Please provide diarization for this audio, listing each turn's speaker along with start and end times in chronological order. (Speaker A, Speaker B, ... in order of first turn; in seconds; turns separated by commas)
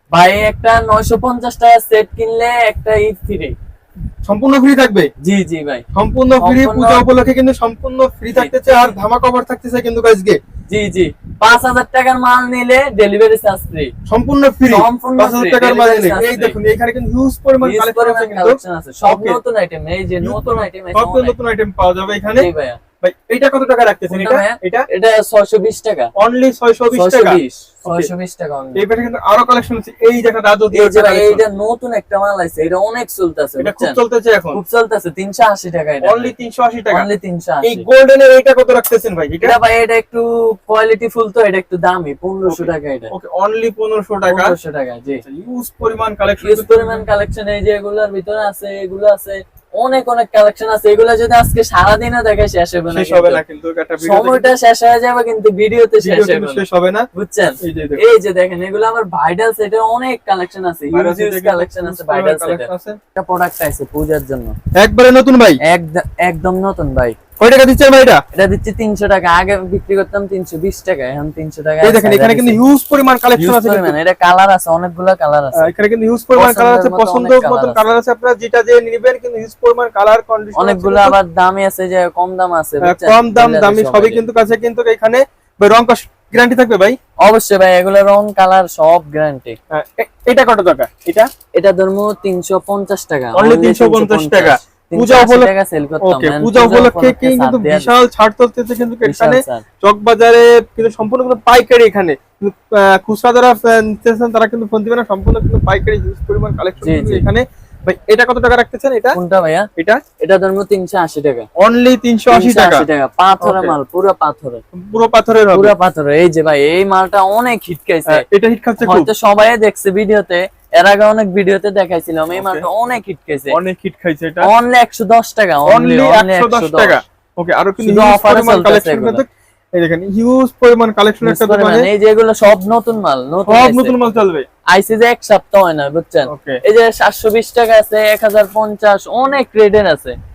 Speaker A: 0.1-3.5, Speaker B: 4.2-5.1, Speaker A: 5.2-5.8, Speaker B: 5.9-10.4, Speaker A: 6.4-7.0, Speaker A: 8.3-8.9, Speaker A: 10.7-13.9, Speaker B: 14.1-19.4, Speaker A: 14.7-16.6, Speaker A: 17.6-21.4, Speaker B: 20.2-22.5, Speaker A: 22.4-22.8, Speaker B: 23.0-24.9, Speaker A: 24.1-26.1, Speaker B: 26.2-28.1, Speaker A: 26.9-28.8, Speaker B: 28.8-31.4, Speaker A: 30.7-34.0, Speaker B: 33.6-34.6, Speaker A: 34.5-36.3, Speaker B: 36.0-37.1, Speaker A: 36.9-37.8, Speaker B: 37.6-39.5, Speaker A: 39.4-43.1, Speaker B: 42.5-44.6, Speaker A: 44.3-45.2, Speaker B: 45.2-47.0, Speaker A: 46.4-53.4, Speaker B: 52.9-54.5, Speaker A: 54.0-64.5, Speaker B: 56.0-57.1, Speaker B: 57.6-58.0, Speaker B: 60.9-63.0, Speaker B: 64.7-65.6, Speaker A: 65.6-67.2, Speaker B: 67.4-68.2, Speaker A: 68.3-72.6, Speaker B: 71.8-74.0, Speaker A: 73.4-75.7, Speaker B: 75.6-81.2, Speaker A: 76.4-77.9, Speaker A: 80.6-84.2, Speaker B: 82.8-87.0, Speaker A: 87.2-89.6, Speaker B: 89.7-91.3, Speaker A: 91.5-97.9, Speaker B: 93.3-109.2, Speaker A: 99.0-99.6, Speaker A: 106.8-107.2, Speaker A: 109.2-109.7, Speaker A: 110.2-111.5, Speaker B: 111.6-112.9, Speaker A: 112.3-114.6, Speaker B: 113.4-113.8, Speaker B: 114.7-115.7, Speaker A: 115.5-118.2, Speaker B: 118.1-119.1, Speaker A: 118.8-123.6, Speaker B: 122.4-122.7, Speaker B: 123.5-124.5, Speaker A: 124.4-127.0, Speaker B: 125.7-129.3, Speaker A: 127.8-129.2, Speaker B: 129.8-131.9, Speaker A: 131.2-134.2, Speaker B: 133.5-134.5, Speaker A: 134.7-140.2, Speaker B: 136.3-136.6